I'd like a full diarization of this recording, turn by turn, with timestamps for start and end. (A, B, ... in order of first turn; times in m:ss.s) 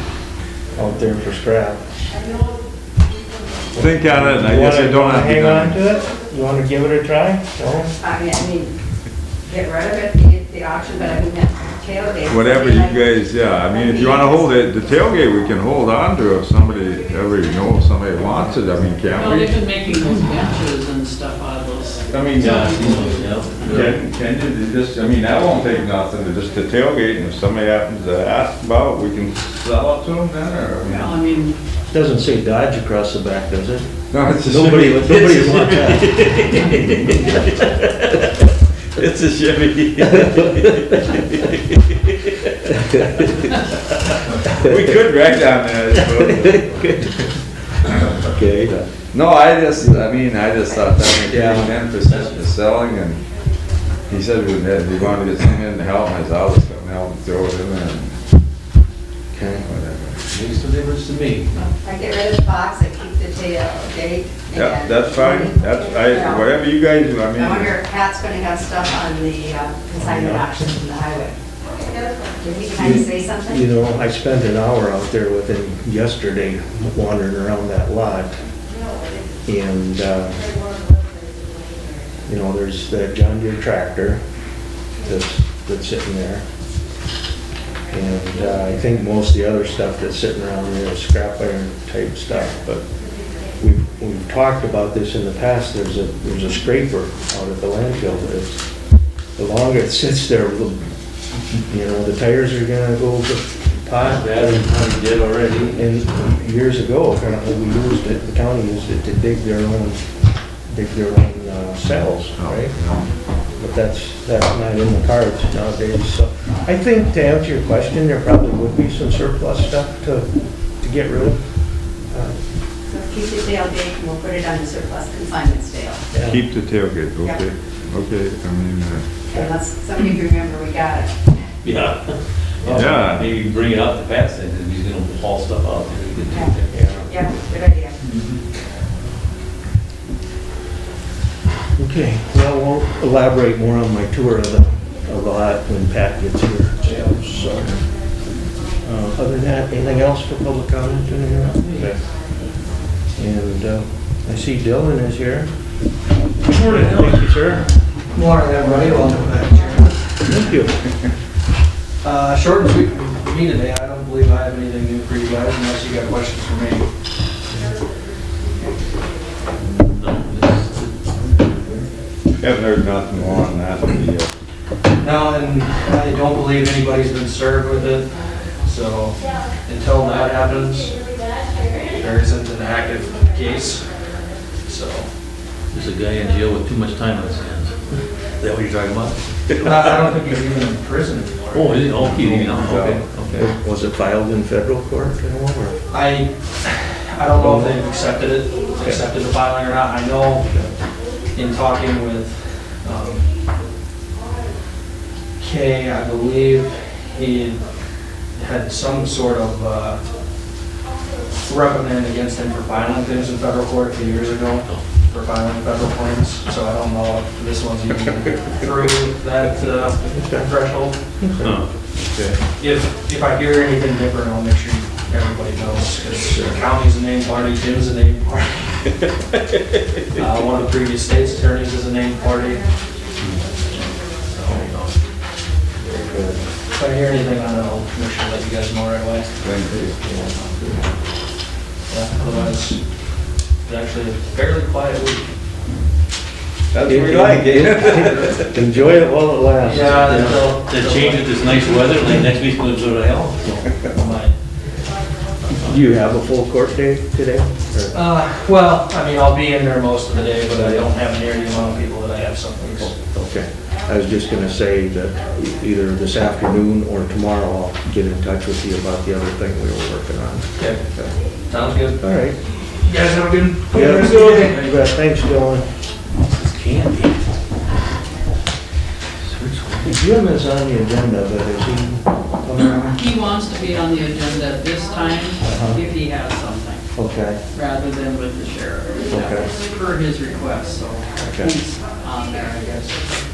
0:00.8-0:01.9 A
0:03.7-0:08.0 A
0:03.8-0:05.8 B
0:08.0-0:08.7 C
0:09.5-0:13.0 C
0:12.2-0:19.6 B
0:13.7-0:14.4 C
0:19.1-0:23.2 D
0:22.1-0:31.2 B
0:22.4-0:24.0 E
0:30.9-0:31.6 D
0:31.9-0:33.9 A
0:34.1-0:35.5 B
0:34.4-0:36.6 A
0:34.9-0:43.6 E
0:44.4-0:46.8 B
0:46.2-0:47.1 A
0:48.2-0:48.9 A
0:49.1-0:53.2 B
0:51.3-0:51.7 A
0:52.0-0:52.4 E
0:54.1-0:58.2 B
0:59.3-0:59.7 A
0:59.6-1:00.2 B
1:00.3-1:01.6 E
1:01.8-1:06.4 C
1:04.5-1:07.8 B
1:07.4-1:11.4 C
1:10.0-1:10.8 A
1:12.2-1:13.6 C
1:12.8-1:18.4 A
1:19.4-1:20.4 A
1:22.2-1:24.2 A
1:25.0-1:26.4 A
1:27.9-1:32.8 A
1:33.6-1:38.6 A
1:39.4-1:40.9 A
1:41.5-1:44.7 A
1:44.0-1:45.8 E
1:45.7-1:50.0 A
1:50.7-1:52.7 A
1:52.4-1:53.1 B
1:53.6-2:01.4 A
2:02.1-2:02.4 A
2:02.9-2:06.0 C
2:06.1-2:06.4 A
2:06.2-2:09.1 B
2:09.3-2:11.3 C
2:11.6-2:16.9 E
2:12.7-2:13.3 B
2:16.7-2:17.1 A
2:17.1-2:18.0 C
2:18.1-2:18.4 E
2:21.8-2:27.7 A
2:27.4-2:27.7 B
2:28.8-2:32.0 A
2:31.6-2:31.9 E
2:33.2-2:35.5 A
2:36.4-2:37.7 A
2:36.7-2:37.2 E
2:38.1-2:40.0 F
2:40.2-2:40.8 A
2:42.0-2:46.9 F
2:49.6-2:51.9 E
2:52.4-2:54.3 B
2:55.0-3:01.0 F
3:02.0-3:03.8 F
3:04.7-3:05.1 F
3:05.7-3:10.0 E
3:09.6-3:11.8 F
3:11.5-3:13.5 E
3:12.0-3:13.1 B
3:13.3-3:15.8 A
3:15.9-3:20.5 F
3:17.3-3:17.8 A
3:20.4-3:20.7 A
3:21.3-3:23.2 F
3:25.4-3:27.6 F
3:28.3-3:30.0 F
3:31.4-3:41.0 F
3:40.1-3:40.5 A
3:41.2-3:41.6 A
3:41.4-3:41.7 E
3:42.6-3:49.0 F
3:46.2-3:46.6 A
3:50.1-3:52.7 F
3:54.4-3:54.7 A
3:54.5-3:54.9 E
3:55.8-3:56.4 A
3:56.7-3:59.6 F
3:59.4-4:00.0 B
4:00.0-4:00.9 A
4:01.9-4:02.8 F
4:03.7-4:05.2 F
4:06.7-4:08.5 B
4:06.8-4:10.4 A
4:09.7-4:11.7 F
4:09.7-4:13.7 E
4:13.8-4:14.3 F
4:15.5-4:18.0 A
4:17.9-4:22.9 F
4:20.5-4:20.8 A
4:22.8-4:31.1 A
4:30.6-4:30.8 F
4:31.5-4:32.0 F
4:32.0-4:32.4 A
4:32.9-4:34.5 F
4:32.9-4:34.8 E
4:33.7-4:35.7 A
4:36.3-4:37.2 E
4:39.2-4:40.0 E
4:39.8-4:43.0 A
4:42.9-4:46.8 D
4:45.4-4:45.8 A
4:46.9-4:47.4 A
4:47.5-4:53.0 D
4:49.1-4:49.5 A
4:51.2-4:51.5 A